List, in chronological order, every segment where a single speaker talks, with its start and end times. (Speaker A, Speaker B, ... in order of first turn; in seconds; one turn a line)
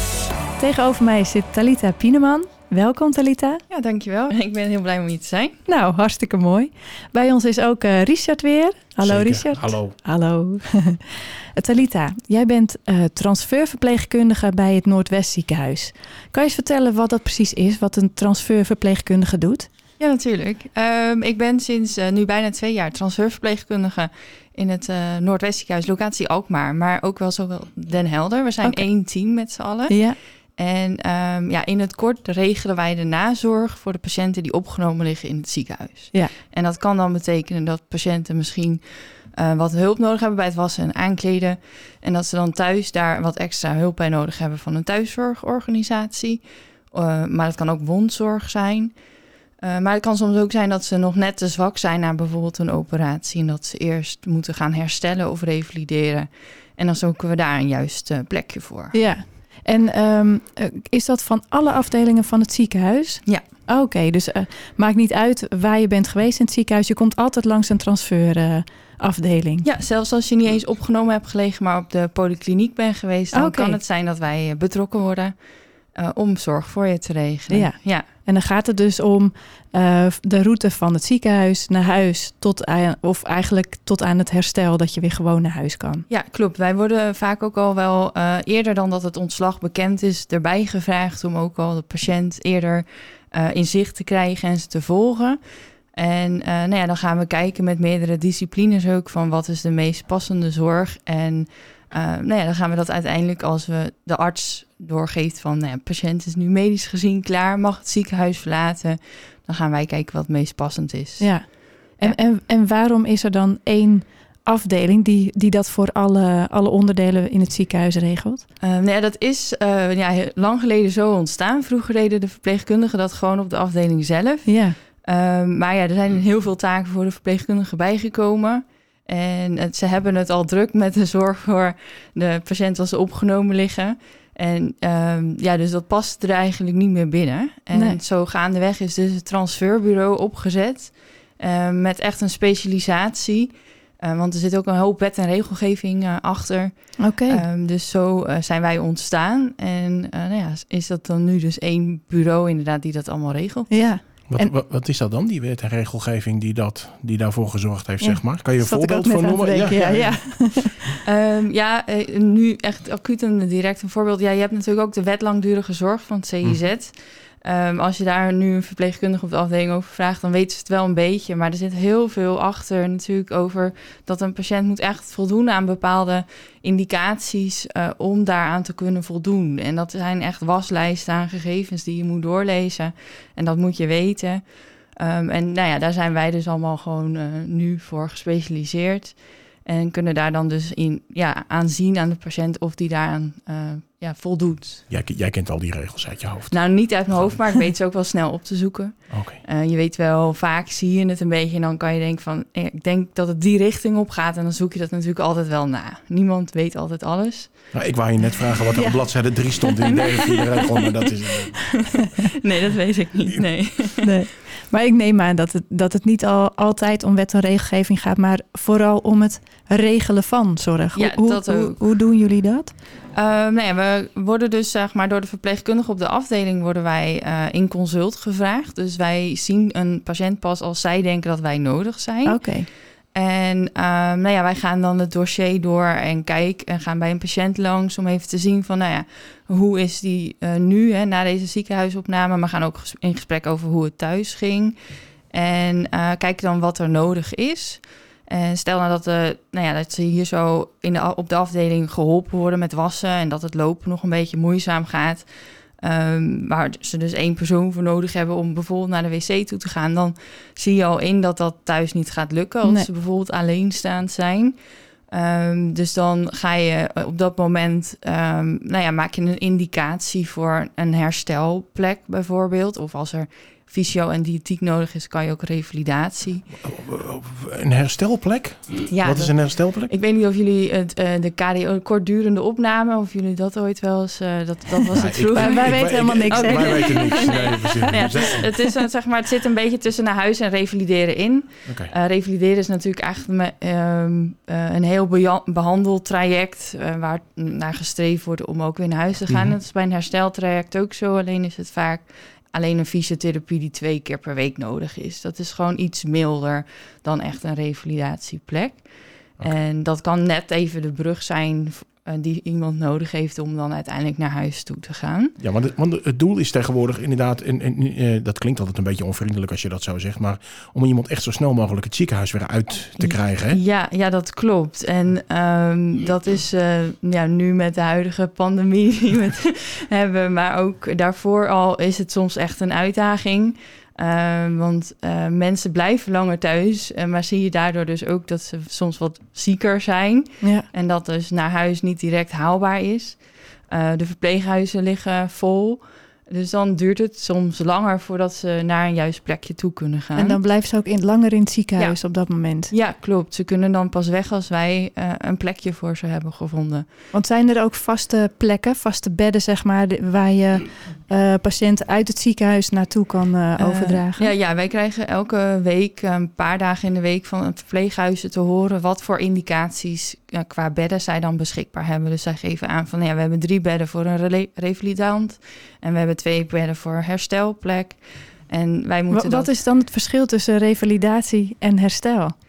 Speaker A: 0.6-3.6
Speaker B: 3.7-5.5
Speaker A: 5.7-19.7
Speaker C: 9.0-9.9
Speaker B: 20.0-49.0
Speaker A: 29.9-30.2
Speaker B: 49.6-59.0
Speaker A: 58.9-69.6
Speaker B: 69.6-75.4
Speaker A: 73.3-73.8
Speaker B: 75.9-78.1
Speaker A: 77.5-86.0
Speaker B: 86.1-95.4
Speaker B: 95.9-112.2
Speaker A: 111.2-118.4
Speaker B: 118.6-153.8
Speaker A: 124.4-124.8
Speaker A: 147.0-147.4
Speaker A: 153.7-154.5
Speaker C: 154.3-160.8
Speaker A: 158.0-160.8
Speaker B: 161.0-194.8
Speaker C: 194.9-197.4
Speaker B: 196.5-207.6
Speaker C: 199.1-199.4
Speaker C: 207.7-211.8
Speaker A: 208.7-209.0
Speaker B: 209.8-214.1
Speaker A: 214.0-222.7
Speaker B: 220.9-221.8
Speaker B: 223.1-244.8
Speaker A: 232.2-232.7
Speaker B: 245.3-264.5
Speaker A: 262.6-262.9
Speaker B: 265.1-276.5
Speaker C: 276.6-279.9
Speaker B: 278.9-315.3
Speaker C: 284.9-288.5
Speaker A: 285.3-288.4
Speaker C: 291.7-291.9
Speaker C: 299.3-299.5
Speaker C: 315.4-323.6
Speaker B: 323.0-350.4
Speaker A: 340.4-340.7
Speaker A: 350.1-352.7
Speaker B: 351.8-356.8
Speaker A: 357.1-364.3
Speaker B: 363.6-379.5
Speaker A: 379.1-382.3